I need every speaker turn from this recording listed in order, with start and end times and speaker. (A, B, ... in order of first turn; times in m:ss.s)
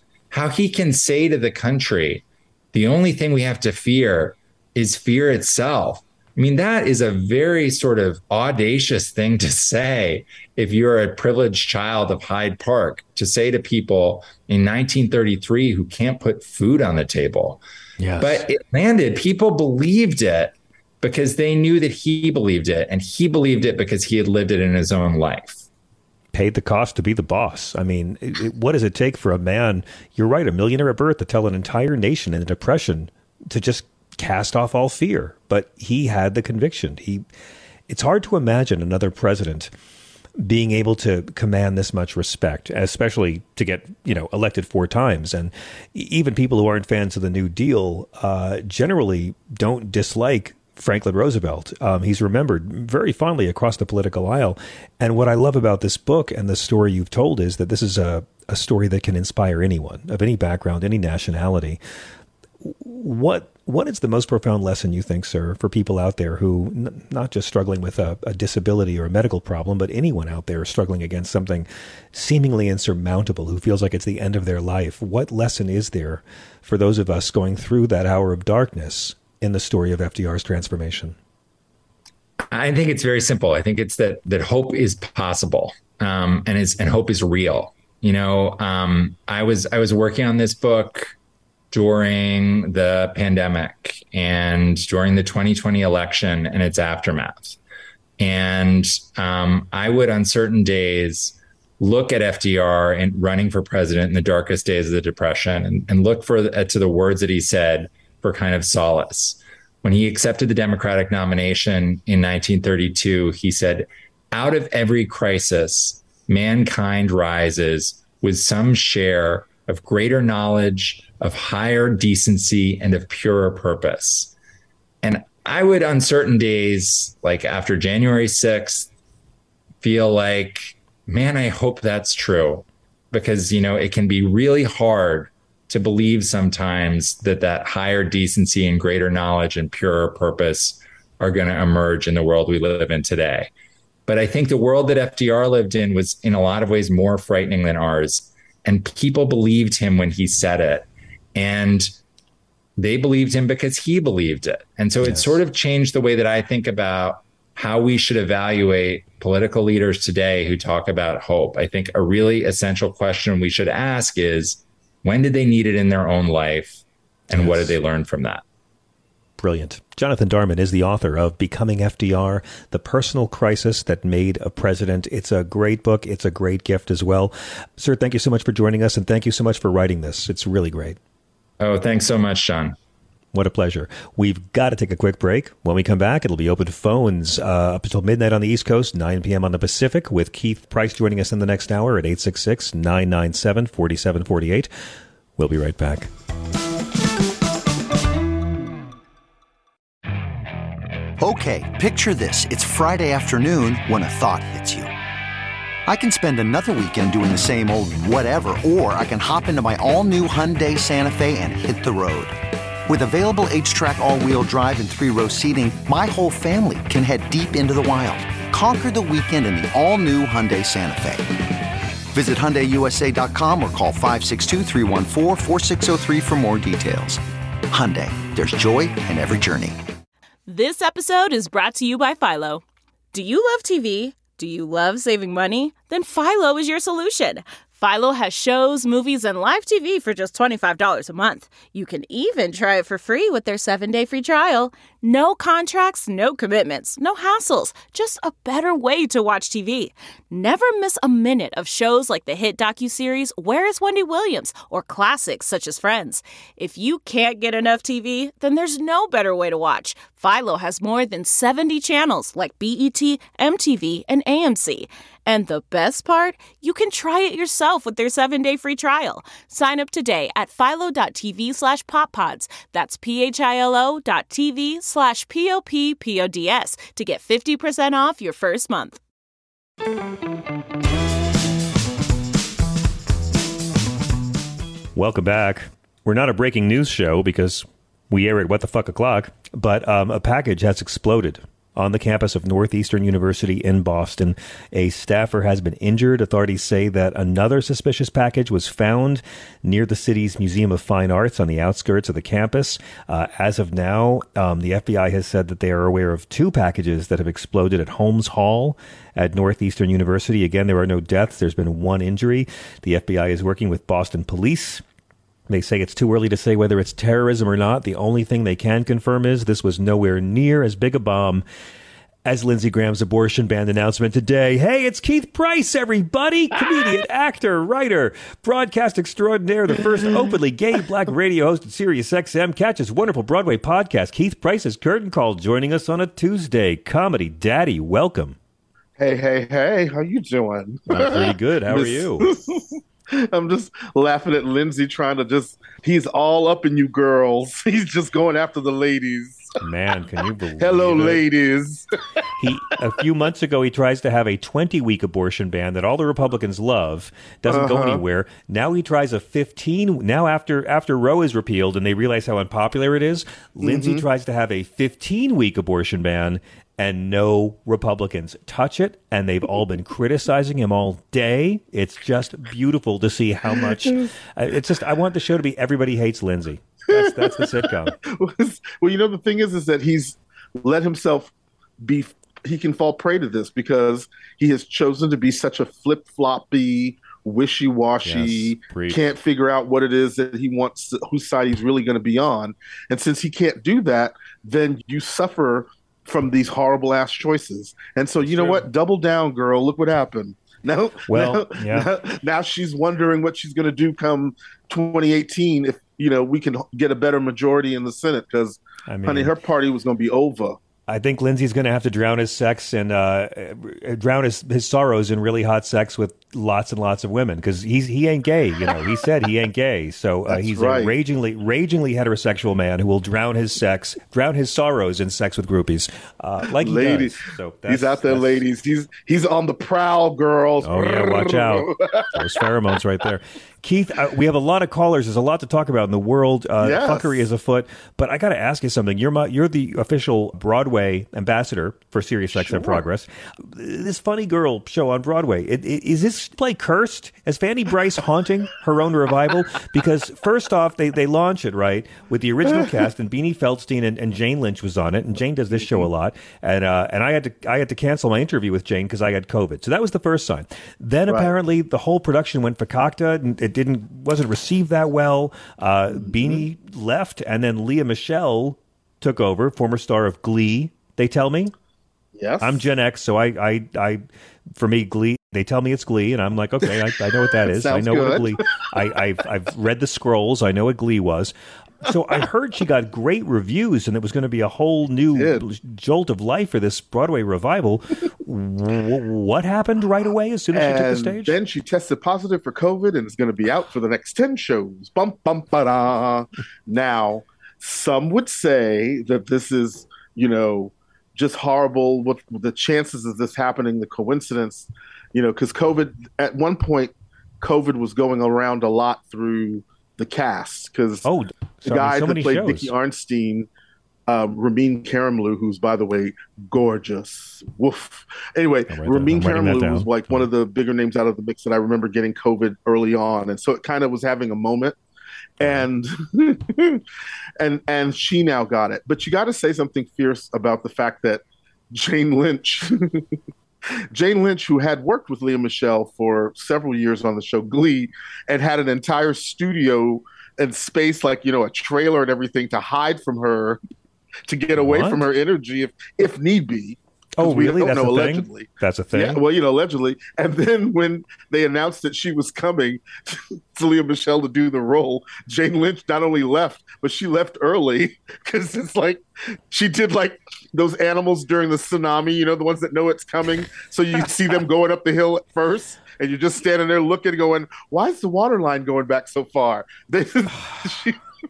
0:00.3-0:17.6 A
0:18.0-0:18.5 B
0:18.2-0:25.6 A
0:26.3-0:37.2 B
0:37.9-0:39.7 B
0:40.4-1:01.8 B
1:02.6-1:21.2 B
1:22.5-1:31.1 A
1:31.7-1:37.6 A
1:38.2-2:04.3 A
2:05.0-2:08.9 A
2:09.8-2:23.5 A
2:24.1-2:31.9 A
2:32.8-2:48.4 A
2:35.0-2:35.4 B
2:47.3-2:47.8 B
2:49.4-3:01.0 B
3:01.6-3:02.8 A
3:03.3-3:14.7 B
3:15.4-3:16.1 B
3:21.2-3:24.9 C
3:25.9-3:32.3 C
3:32.9-3:41.3 C
3:42.1-3:49.8 C
3:50.5-4:39.0 D
4:45.0-5:14.8 B
5:15.5-5:21.4 B
5:22.2-5:38.4 B
5:39.0-5:49.4 E
5:40.9-5:42.3 B
5:49.6-5:51.2 B
5:50.6-5:51.8 E
5:52.4-6:18.0 B
5:57.4-5:58.0 E
6:03.6-6:04.0 E
6:13.5-6:14.1 E
6:16.9-6:21.3 E
6:21.8-6:50.6 E
6:28.0-6:29.0 B
6:38.2-6:38.7 B
6:41.1-6:41.9 B
6:48.9-6:49.4 B
6:50.9-7:08.4 B
7:00.3-7:00.9 E
7:06.4-7:12.5 E
7:10.6-7:51.5 B
7:16.6-7:17.2 E
7:22.3-7:22.8 E
7:35.6-7:35.8 E
7:41.1-7:41.3 E
7:46.0-7:46.4 E
7:52.2-7:52.6 E
7:52.4-7:54.0 B
7:54.6-8:11.4 B
7:57.3-7:58.6 E
8:05.1-8:05.4 E
8:10.5-8:31.1 E
8:31.0-8:32.7 B
8:31.6-8:33.5 E
8:34.1-8:44.8 E
8:38.7-8:40.3 B
8:45.4-8:45.7 B
8:45.4-8:46.8 E
8:47.4-8:53.0 E
8:53.9-9:03.6 E
9:04.3-9:31.0 E
9:04.5-9:05.1 B
9:07.2-9:09.2 B